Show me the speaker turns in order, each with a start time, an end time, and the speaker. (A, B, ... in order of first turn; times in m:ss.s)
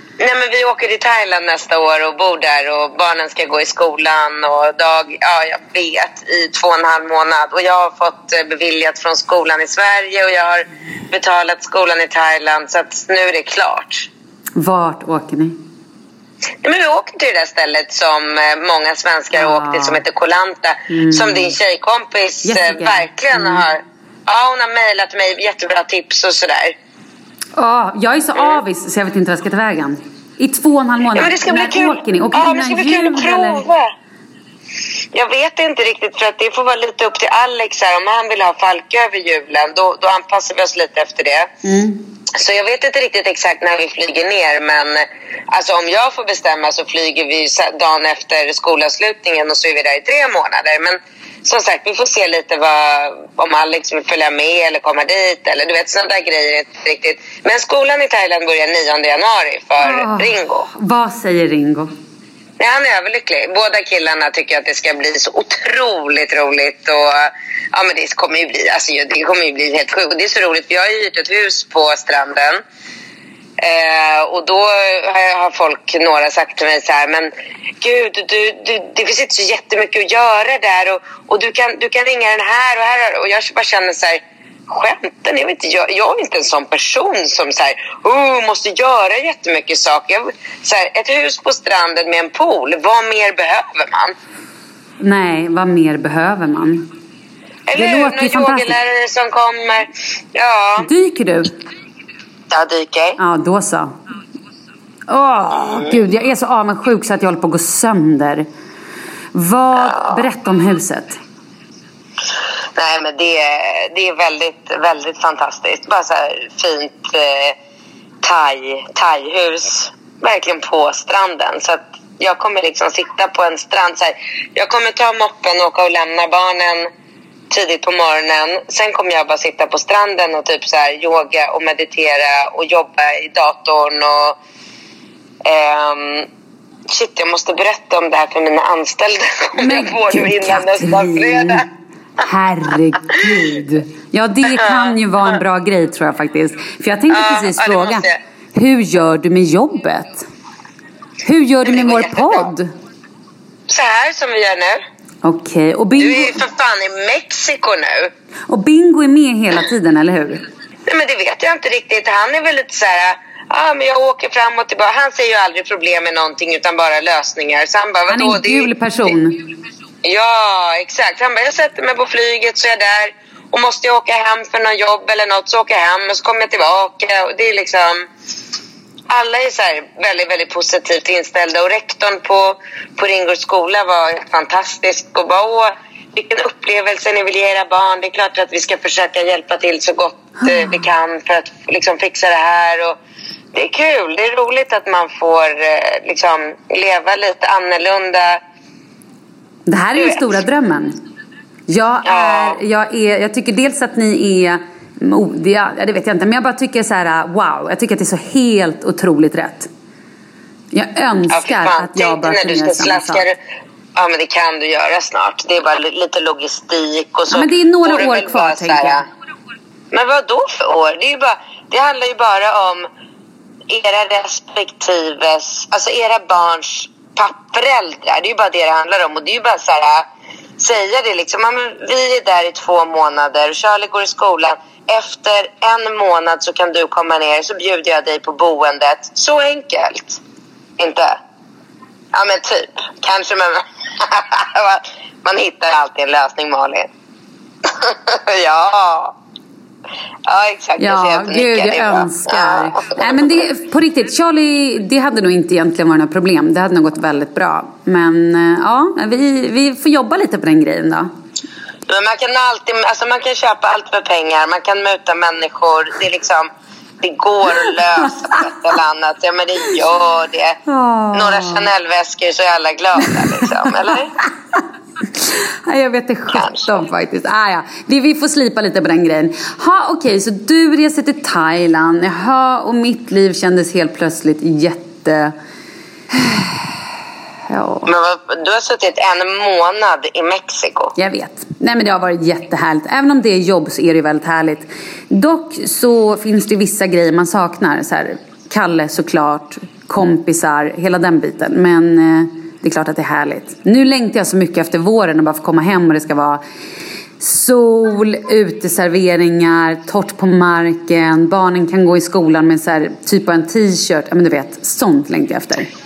0:00.2-0:14.1 A
0:14.6-0:15.6 B
0:16.6-0:26.7 A
0:19.3-0:20.0 B
0:20.9-0:21.5 B
0:22.4-0:23.6 B
0:27.6-0:33.6 B
0:31.1-0:33.9 A
0:35.1-0:41.5 A
0:41.6-0:42.0 B
0:42.3-1:00.7 A
0:59.8-1:01.9 B
1:02.6-1:12.6 A
1:13.6-1:34.1 A
1:35.0-1:36.9 B
1:37.7-1:40.9 A
1:37.7-1:38.8 B
1:40.8-1:41.5 B
1:42.5-1:43.2 A
1:43.2-1:43.9 B
1:45.1-1:48.5 B
1:49.3-1:51.2 B
1:49.8-1:50.2 A
1:52.8-1:57.6 A
1:58.2-2:06.9 A
2:07.5-2:14.4 A
2:15.4-2:16.3 A
2:16.9-2:21.6 A
2:19.6-2:21.6 B
2:22.2-2:30.2 B
2:24.5-2:24.9 A
2:27.1-2:28.2 A
2:31.2-2:32.7 B
2:31.6-2:32.5 A
2:33.7-2:34.8 A
2:35.2-2:36.4 B
2:36.0-2:38.1 A
2:38.5-2:40.4 B
2:40.9-2:48.7 A
2:48.1-2:49.4 B
2:50.0-2:58.1 A
2:59.1-3:13.0 A
3:10.4-3:10.7 B
3:13.5-3:18.4 A
3:19.7-3:21.0 B
3:20.0-3:20.2 A
3:21.7-3:29.7 B
3:22.0-3:22.6 A
3:30.7-3:33.2 B
3:31.3-3:33.4 A
3:34.0-3:39.0 A
3:37.3-3:39.0 B
3:39.9-3:42.9 A
3:43.7-3:50.0 A
3:50.6-4:00.2 A
4:00.8-4:01.2 A
4:02.1-4:06.9 A
4:07.7-4:09.1 A
4:10.3-4:13.4 A
4:10.8-4:21.1 B
4:21.9-4:26.5 A
4:27.0-4:30.6 A
4:27.6-4:28.4 B
4:30.7-4:31.7 B
4:31.1-4:34.1 A
4:33.1-4:33.7 B
4:34.6-4:45.3 B
4:36.3-4:36.8 A
4:46.1-4:46.8 B
4:47.5-4:47.9 B
4:47.8-4:50.9 A
4:51.0-5:06.4 B
5:07.2-5:15.7 B